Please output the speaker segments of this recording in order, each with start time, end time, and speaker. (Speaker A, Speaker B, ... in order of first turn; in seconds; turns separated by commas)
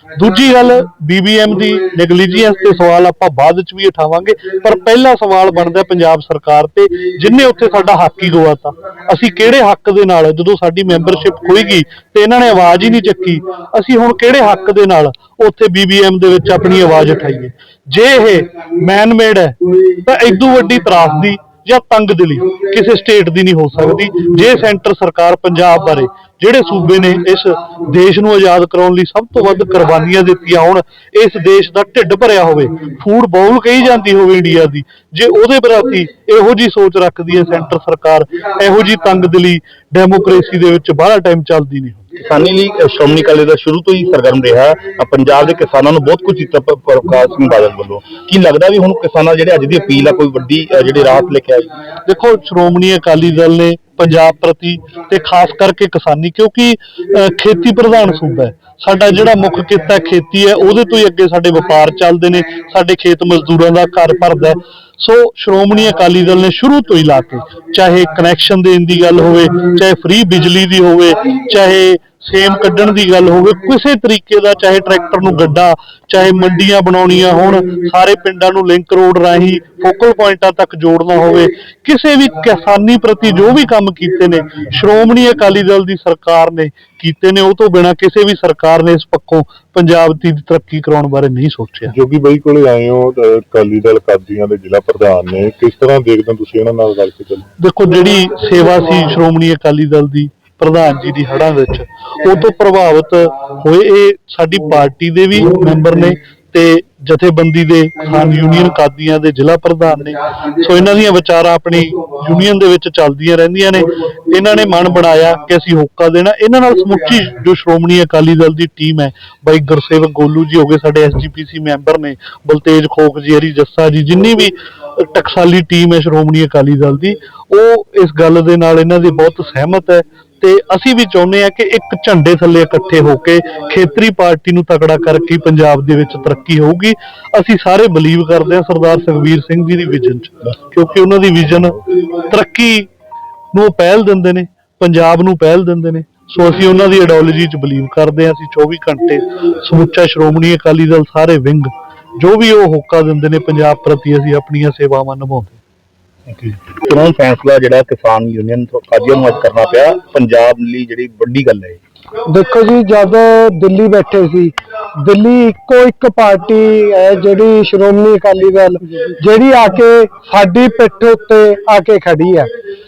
Speaker A: 0.1-42.2, Speaker B: 42.2-51.8, Speaker A: 52.0-91.9, Speaker C: 91.9-97.5, Speaker A: 97.6-142.9, Speaker A: 143.5-155.6, Speaker B: 156.3-161.8, Speaker D: 162.2-172.5